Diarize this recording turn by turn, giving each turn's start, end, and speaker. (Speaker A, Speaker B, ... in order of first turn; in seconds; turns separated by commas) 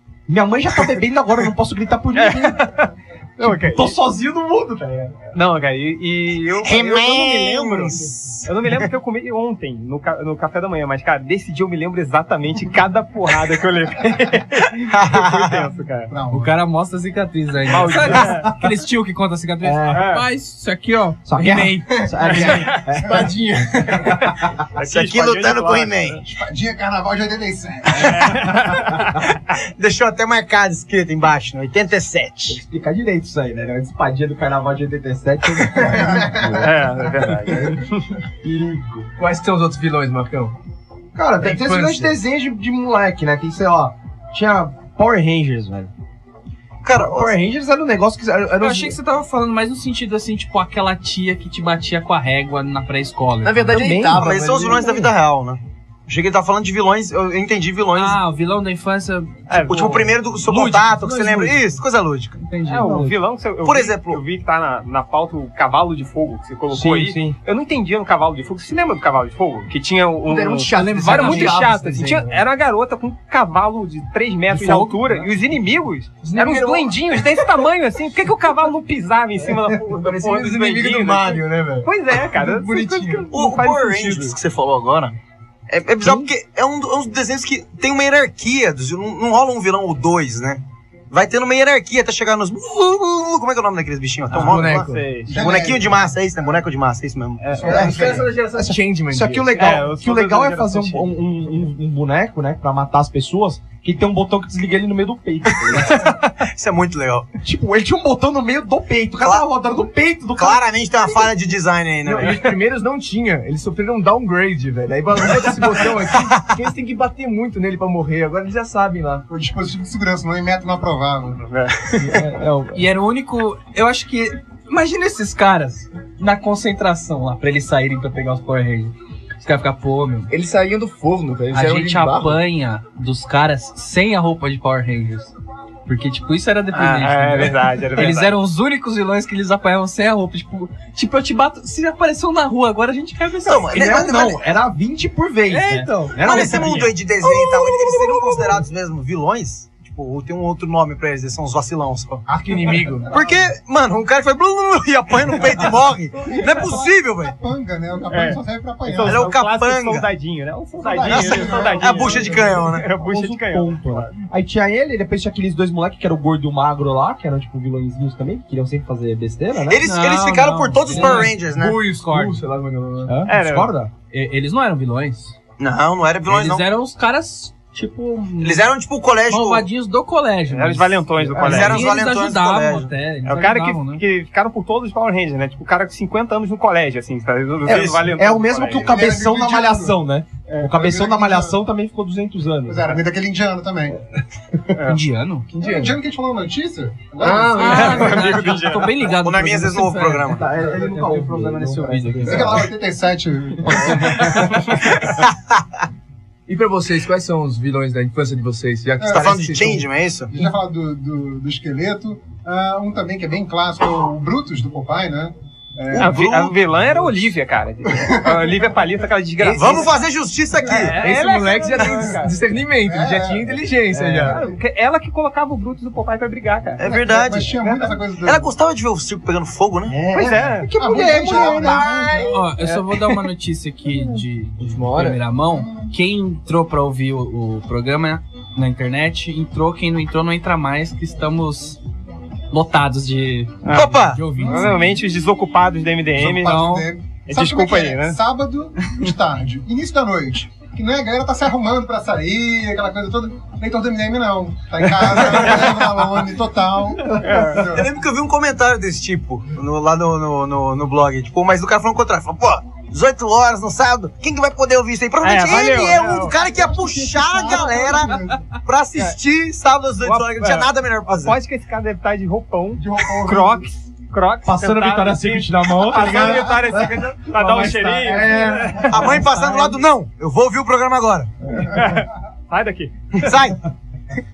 Speaker A: 0.3-2.7, Speaker B: 2.1-3.9, Speaker A: 3.4-5.3, Speaker B: 5.3-16.1, Speaker C: 6.6-8.9, Speaker C: 14.9-15.6, Speaker D: 16.1-16.5, Speaker E: 16.3-22.5, Speaker B: 17.7-18.5, Speaker A: 19.6-20.1, Speaker B: 19.9-20.2, Speaker A: 21.2-23.3, Speaker F: 21.9-24.2, Speaker B: 22.5-22.8, Speaker B: 24.8-26.2, Speaker C: 24.8-26.2, Speaker D: 26.2-28.6, Speaker B: 28.0-29.2, Speaker C: 29.6-32.6, Speaker A: 32.5-37.7, Speaker B: 36.5-38.1, Speaker A: 38.4-39.1, Speaker F: 39.2-40.5, Speaker A: 41.1-45.9, Speaker F: 41.4-42.1, Speaker C: 46.8-47.3, Speaker A: 46.9-49.0, Speaker E: 48.6-53.8, Speaker F: 53.4-55.1, Speaker A: 53.7-54.3, Speaker C: 53.9-58.2, Speaker E: 57.9-59.9, Speaker B: 59.5-60.1, Speaker C: 59.7-62.4, Speaker E: 60.5-61.5, Speaker E: 62.4-63.0, Speaker B: 62.7-84.3, Speaker A: 62.8-63.1, Speaker C: 63.6-64.2, Speaker A: 66.7-67.3, Speaker F: 70.2-72.4, Speaker E: 71.0-71.5, Speaker A: 74.5-74.9, Speaker F: 76.2-77.0, Speaker F: 79.8-83.3, Speaker C: 83.3-85.2, Speaker C: 85.7-97.7, Speaker F: 94.3-95.0, Speaker B: 94.3-95.4, Speaker D: 95.3-96.1, Speaker B: 97.4-97.9, Speaker D: 97.5-98.3, Speaker F: 97.6-99.6, Speaker A: 98.5-106.1, Speaker B: 99.6-101.1, Speaker C: 106.1-107.3, Speaker A: 107.4-111.3, Speaker C: 110.4-112.5, Speaker F: 112.0-119.2, Speaker C: 116.1-116.5, Speaker D: 119.3-121.4, Speaker B: 121.4-122.1, Speaker A: 122.0-122.8, Speaker E: 122.7-130.3, Speaker F: 130.3-132.4, Speaker E: 131.5-135.3, Speaker E: 135.8-143.8, Speaker B: 136.7-138.4, Speaker C: 143.4-144.4, Speaker A: 143.7-146.9, Speaker E: 145.5-148.5, Speaker C: 146.2-152.2, Speaker F: 152.2-153.1, Speaker C: 153.1-157.3, Speaker D: 156.2-159.3, Speaker B: 158.1-164.1, Speaker C: 159.0-160.1, Speaker D: 160.8-162.7, Speaker C: 161.0-162.9, Speaker A: 162.9-169.8, Speaker C: 169.6-171.8, Speaker E: 169.8-171.3, Speaker F: 170.9-173.2, Speaker E: 172.0-172.3, Speaker A: 173.1-173.9, Speaker B: 173.3-173.7, Speaker E: 174.1-175.3, Speaker C: 175.6-176.7, Speaker E: 176.3-178.7, Speaker C: 178.4-179.7, Speaker E: 179.3-184.0, Speaker B: 180.5-181.8, Speaker C: 181.4-182.9, Speaker B: 183.2-188.9, Speaker A: 187.7-192.8, Speaker C: 187.7-188.1, Speaker D: 188.8-190.0, Speaker D: 190.6-191.6, Speaker D: 192.7-194.0, Speaker B: 194.8-195.0, Speaker E: 194.8-195.5, Speaker F: 195.5-195.9, Speaker D: 195.6-198.2, Speaker F: 197.2-198.3, Speaker E: 197.5-202.6, Speaker B: 197.6-199.0, Speaker C: 199.0-200.5, Speaker A: 200.2-202.7, Speaker D: 202.2-204.8, Speaker E: 203.9-204.2, Speaker C: 205.2-205.6, Speaker F: 206.5-209.9, Speaker D: 209.0-209.3, Speaker C: 209.1-210.3, Speaker D: 210.3-216.6, Speaker B: 215.9-219.9, Speaker D: 217.9-218.7, Speaker F: 219.4-219.9, Speaker C: 219.5-221.0, Speaker D: 220.6-220.9, Speaker B: 220.6-222.3, Speaker F: 220.9-224.4, Speaker D: 222.8-223.6, Speaker A: 223.9-224.4, Speaker B: 224.2-226.8, Speaker C: 226.8-227.6, Speaker D: 226.8-228.5, Speaker C: 228.2-230.0, Speaker A: 229.9-232.3, Speaker B: 230.1-230.7, Speaker D: 230.8-232.4, Speaker F: 231.3-232.2, Speaker E: 232.3-241.8, Speaker F: 234.6-235.2, Speaker D: 235.5-235.9, Speaker E: 242.5-244.8, Speaker B: 243.6-248.2, Speaker C: 243.7-244.3, Speaker D: 246.2-257.9, Speaker E: 246.4-246.8, Speaker B: 255.3-255.6, Speaker B: 257.2-257.7, Speaker C: 257.7-271.4, Speaker B: 265.2-266.4, Speaker D: 266.5-268.5, Speaker B: 270.0-279.8, Speaker D: 272.8-273.7, Speaker A: 274.4-279.2, Speaker D: 276.0-276.4, Speaker C: 278.9-281.3, Speaker B: 281.6-283.4, Speaker C: 283.1-283.6